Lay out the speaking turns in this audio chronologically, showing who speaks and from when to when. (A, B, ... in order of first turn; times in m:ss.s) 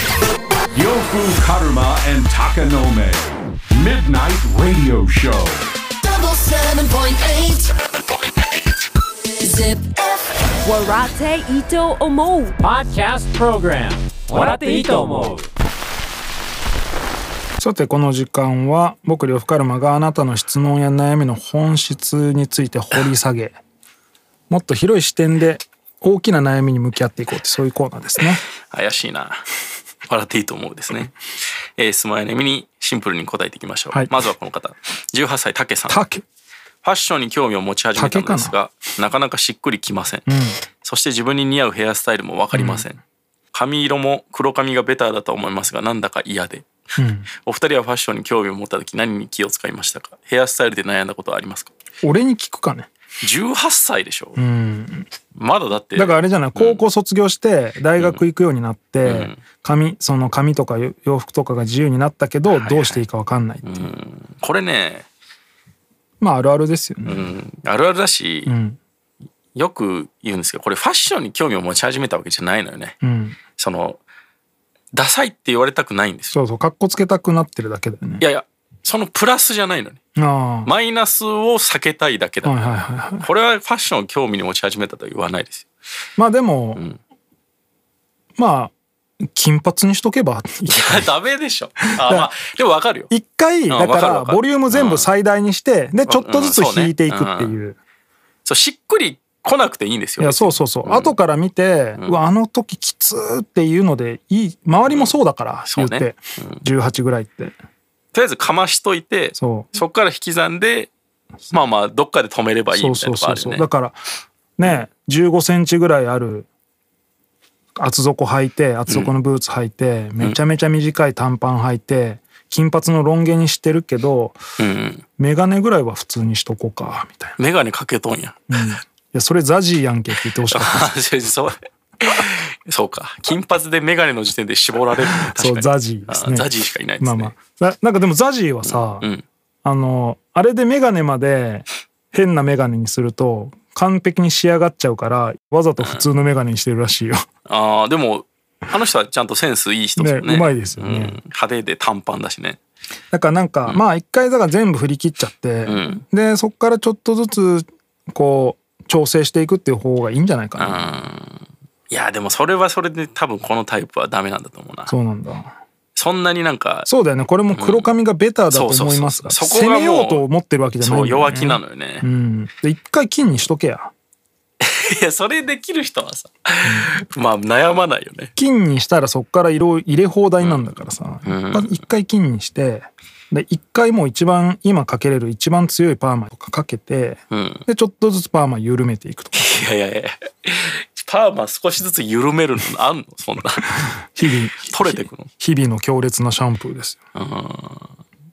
0:00.7-0:05.7 A
0:06.0-0:07.7 B
0:09.4-0:11.2 B
0:12.6-0:15.5 C
0:17.6-0:23.6 D
0:24.5-0:28.4 D
0:28.6-0:29.4 E
0:30.1-0:31.2 E
0:31.8-0:36.0 E
0:35.9-0:36.2 D
0:36.8-0:40.3 E
0:38.0-0:38.5 D
0:40.3-0:40.6 D
0:40.8-0:43.0 E
0:42.5-0:42.9 D
0:43.5-0:46.7 E
0:47.0-0:47.3 D
0:47.4-0:51.7 E
0:52.0-0:52.9 D
0:53.2-0:54.4 E
0:54.4-0:55.1 D
0:55.3-0:56.8 E
0:56.0-1:03.9 D
0:59.0-0:59.4 E
1:02.5-1:03.0 E
1:03.6-1:05.1 E
1:06.2-1:07.3 D
1:07.0-1:08.5 E
1:08.5-1:08.8 D
1:09.5-1:13.0 E
1:13.0-1:13.4 D
1:13.6-1:14.0 E
1:14.9-1:16.4 E
1:16.3-1:18.2 D
1:18.2-1:20.0 E
1:20.2-1:20.7 D
1:20.6-1:22.6 E
1:22.4-1:23.3 D
1:23.2-1:25.7 E
1:26.2-1:26.8 D
1:28.4-1:28.7 D
1:29.3-1:31.1 D
1:30.7-1:33.1 E
1:32.0-1:32.3 D
1:33.1-1:37.8 D
1:33.7-1:35.1 E
1:36.1-1:37.6 E
1:38.4-1:41.2 E
1:40.2-1:47.6 D
1:44.9-1:46.6 E
1:48.1-1:50.9 E
1:49.4-1:49.8 D
1:51.5-1:53.7 E
1:52.7-1:54.0 D
1:54.6-1:56.5 D
1:57.8-2:04.4 D
2:04.6-2:05.0 E
2:05.2-2:07.4 D
2:07.4-2:08.7 E
2:08.5-2:10.9 D
2:10.5-2:17.3 E
2:15.2-2:16.5 D
2:17.0-2:19.1 D
2:18.6-2:19.3 E
2:19.6-2:27.2 D
2:25.8-2:26.1 E
2:27.5-2:32.6 E
2:30.0-2:31.2 D
2:33.1-2:41.0 D
2:35.7-2:36.0 E
2:40.6-2:44.9 E
2:44.9-2:45.5 D
2:46.0-2:46.9 E
2:46.9-2:53.9 D
2:47.5-2:47.9 E
2:48.5-2:50.3 E
2:50.8-2:52.1 E
2:54.6-2:58.3 E
2:56.6-2:57.0 D
2:58.4-3:09.6 D
3:00.4-3:00.7 E
3:01.2-3:01.8 E
3:07.3-3:07.7 E
3:09.4-3:13.8 E
3:14.1-3:17.0 D
3:14.7-3:15.3 E
3:17.2-3:18.0 E